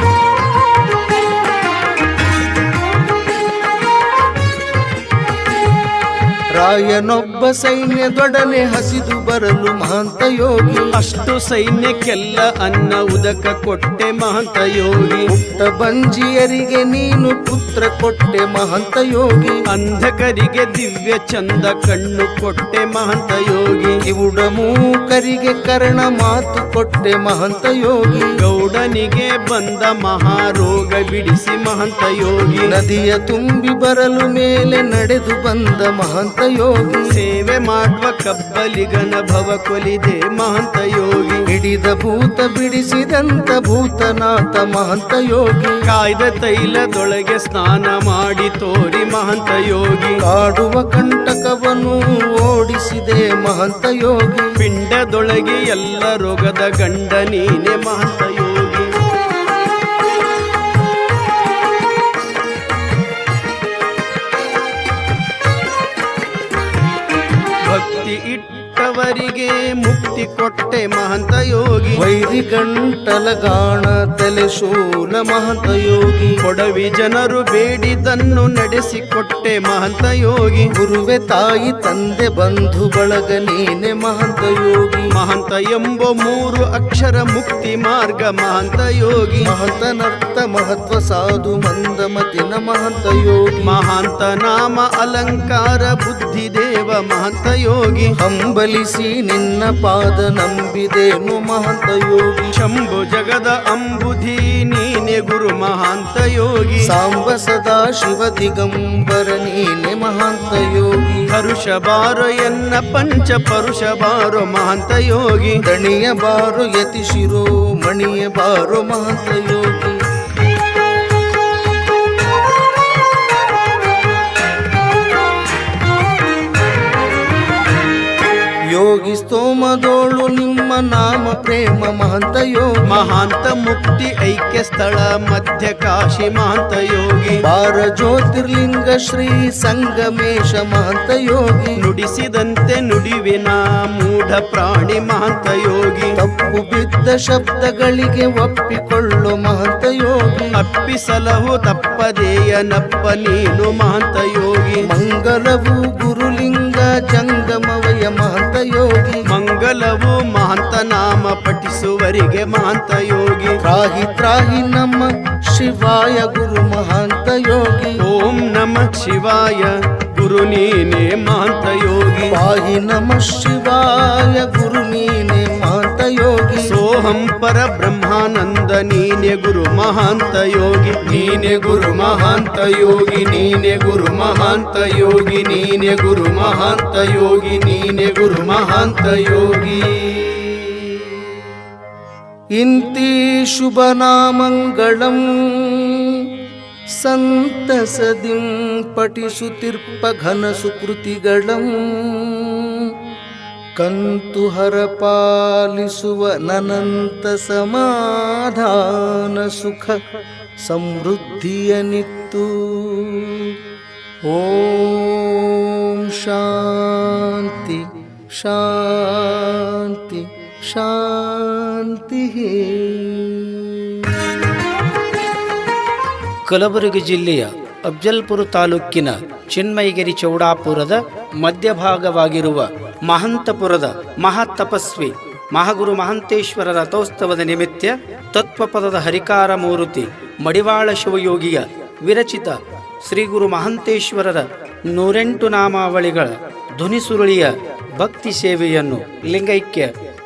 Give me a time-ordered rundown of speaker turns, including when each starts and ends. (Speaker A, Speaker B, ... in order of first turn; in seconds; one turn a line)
Speaker A: 6.5-10.9
Speaker B: 10.9-15.3
Speaker A: 15.3-19.6
Speaker B: 19.7-24.0
Speaker A: 24.1-28.3
Speaker B: 28.4-32.8
Speaker A: 32.7-37.2
Speaker B: 37.1-41.5
Speaker A: 41.5-45.8
Speaker B: 45.9-50.2
Speaker A: 50.2-54.6
Speaker B: 54.6-58.9
Speaker B: 67.7-72.0
Speaker A: 72.0-76.4
Speaker B: 76.4-80.7
Speaker A: 80.8-85.1
Speaker B: 85.1-89.5
Speaker A: 89.4-93.8
Speaker B: 93.6-98.1
Speaker A: 98.2-102.5
Speaker B: 102.5-106.9
Speaker A: 106.9-111.3
Speaker B: 111.3-115.6
Speaker A: 115.7-120.0
Speaker A: 128.7-133.1
Speaker B: 132.9-137.4
Speaker A: 137.4-141.8
Speaker B: 141.8-146.2
Speaker A: 146.2-150.6
Speaker B: 150.5-154.9
Speaker A: 154.8-159.2
Speaker B: 159.2-163.6
Speaker A: 163.6-168.0
Speaker B: 168.0-172.4
Speaker A: 172.3-176.8
Speaker B: 176.6-190.9
Speaker A: 192.6-196.3
Speaker A: 197.0-202.9
Speaker A: 203.8-210.0
Speaker A: 210.6-213.6
Speaker A: 214.2-224.4
Speaker C: 226.4-249.9